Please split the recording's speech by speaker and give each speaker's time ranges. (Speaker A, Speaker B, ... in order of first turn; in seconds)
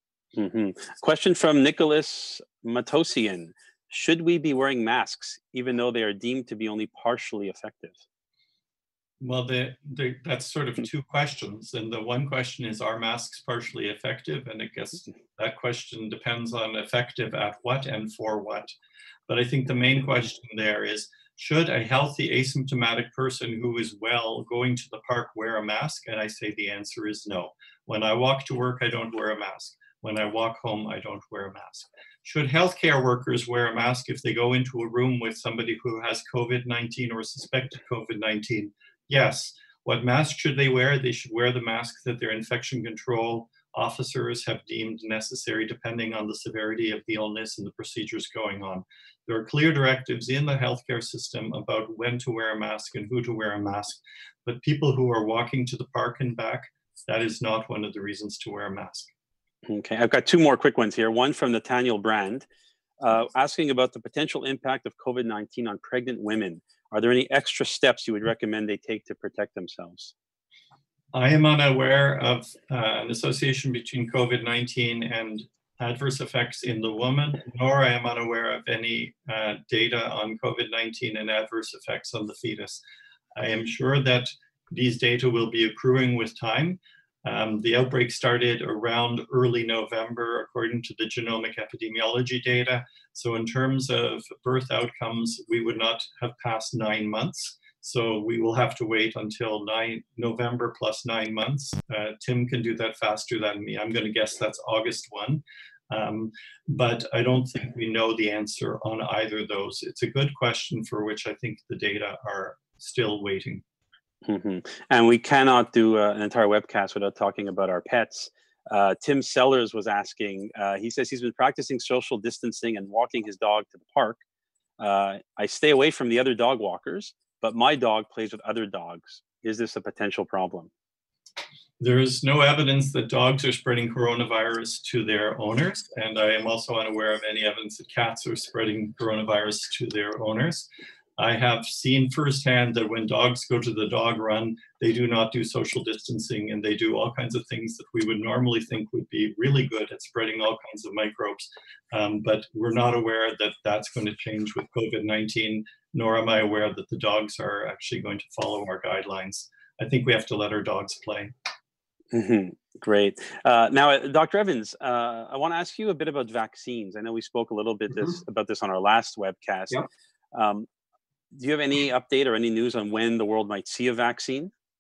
Speaker A: 0.3-8.0, 59.7-62.5, 63.0-70.1, 114.2-124.2, 124.8-130.7, 162.1-170.7, 171.3-174.5
Speaker B: 9.2-18.7, 19.3-59.1, 71.1-82.8, 83.4-113.6, 131.8-140.7, 141.2-161.3